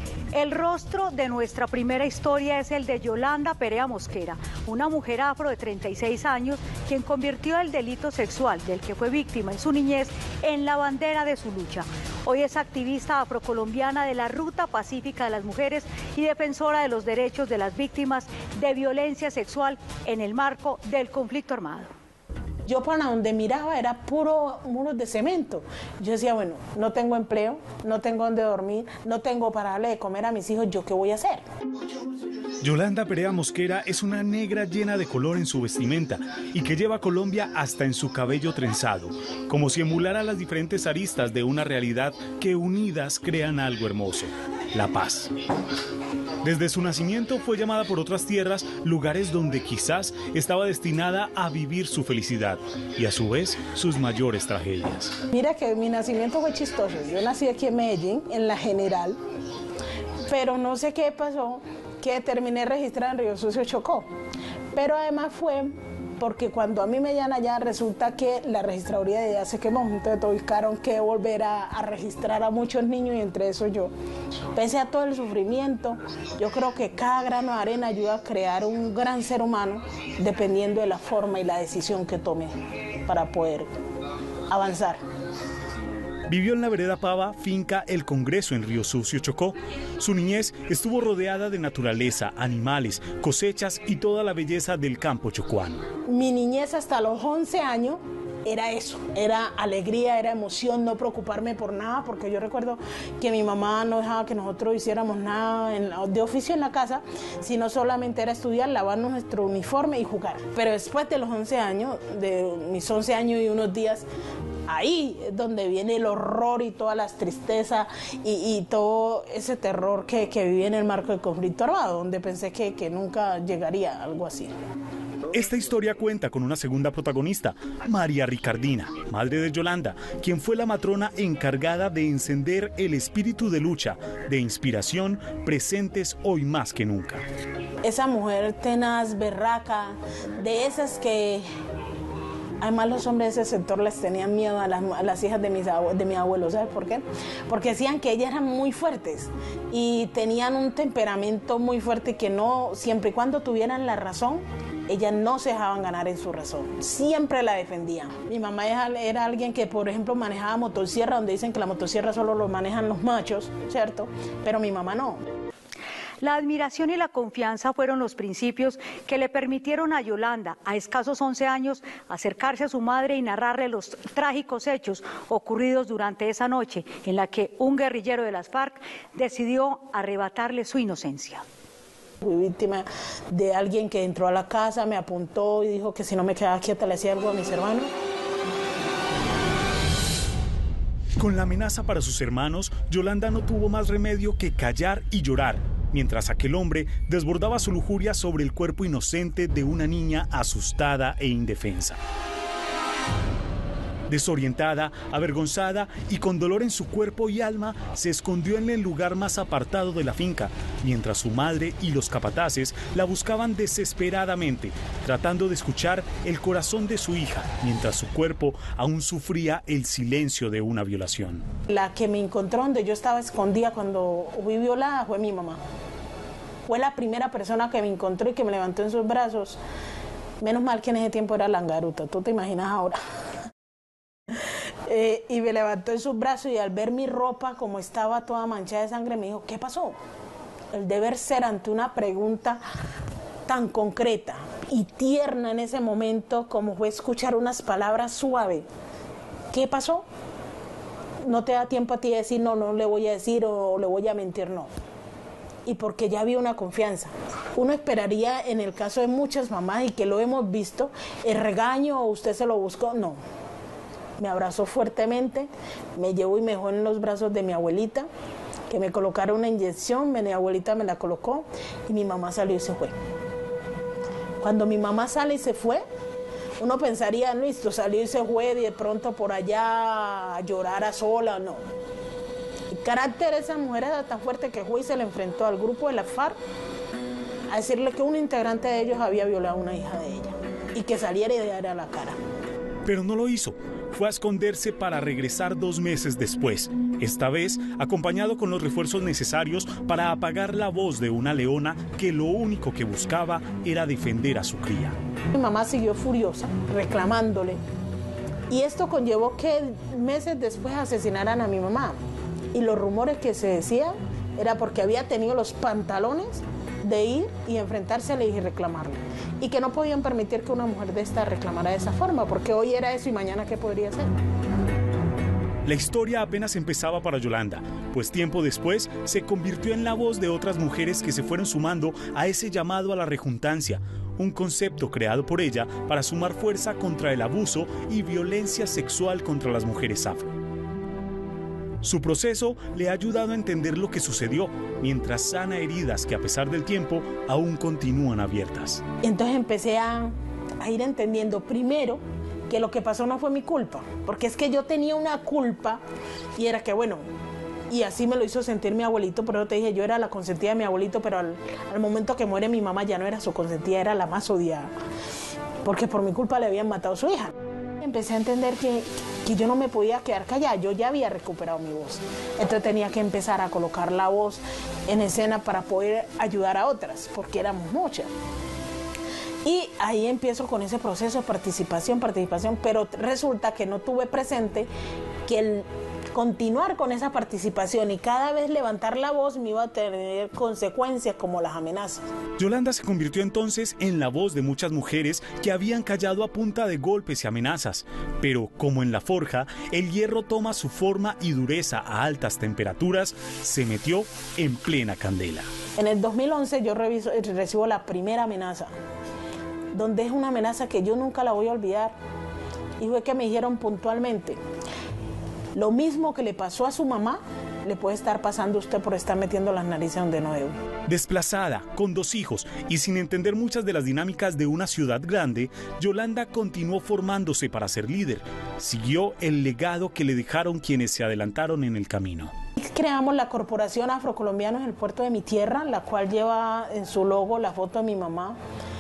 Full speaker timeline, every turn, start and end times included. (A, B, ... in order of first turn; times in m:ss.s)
0:00.3-0:21.9 A
0:22.7-0:31.4 B
0:32.6-0:45.3 C
0:46.4-0:55.2 C
0:55.3-0:59.2 B
1:00.3-1:04.1 B
1:04.7-1:13.9 B
1:14.6-1:23.7 B
1:24.5-1:25.0 B
1:26.3-1:35.8 C
1:36.1-1:54.1 B
1:54.7-2:04.5 B
2:05.3-2:17.2 C
2:17.8-2:21.4 B
2:22.6-2:45.2 B
2:46.2-3:01.4 A
3:02.2-3:07.9 B
3:11.2-3:22.0 C
3:24.1-3:41.4 C
3:41.7-3:45.6 B
3:46.7-3:49.6 B
3:50.4-3:53.0 B
3:54.9-4:00.0 B
4:00.7-4:02.6 B
4:03.5-4:08.7 B
4:09.5-4:10.1 B
4:11.2-4:14.7 B
4:15.6-4:23.2 B
4:24.2-4:28.1 B
4:28.7-4:32.9 B
4:34.4-4:35.8 B
4:36.6-4:41.6 B
4:42.7-4:46.4 B
4:47.5-4:52.2 B
4:52.8-5:05.0 C
5:05.3-5:07.6 B
5:08.5-5:12.0 B
5:12.5-5:24.1 B
5:25.6-5:40.4 C
5:41.8-5:48.8 C
5:49.0-5:55.8 B
5:56.4-5:57.0 B
5:57.7-6:04.7 B
6:05.6-6:18.1 B
6:19.4-6:24.7 B
6:25.3-6:32.0 B
6:32.4-6:45.5 C
6:45.8-6:48.7 B
6:49.7-6:51.9 B
6:52.8-6:54.4 B
6:55.5-7:00.6 B
7:00.9-7:12.3 C
7:12.6-7:18.4 B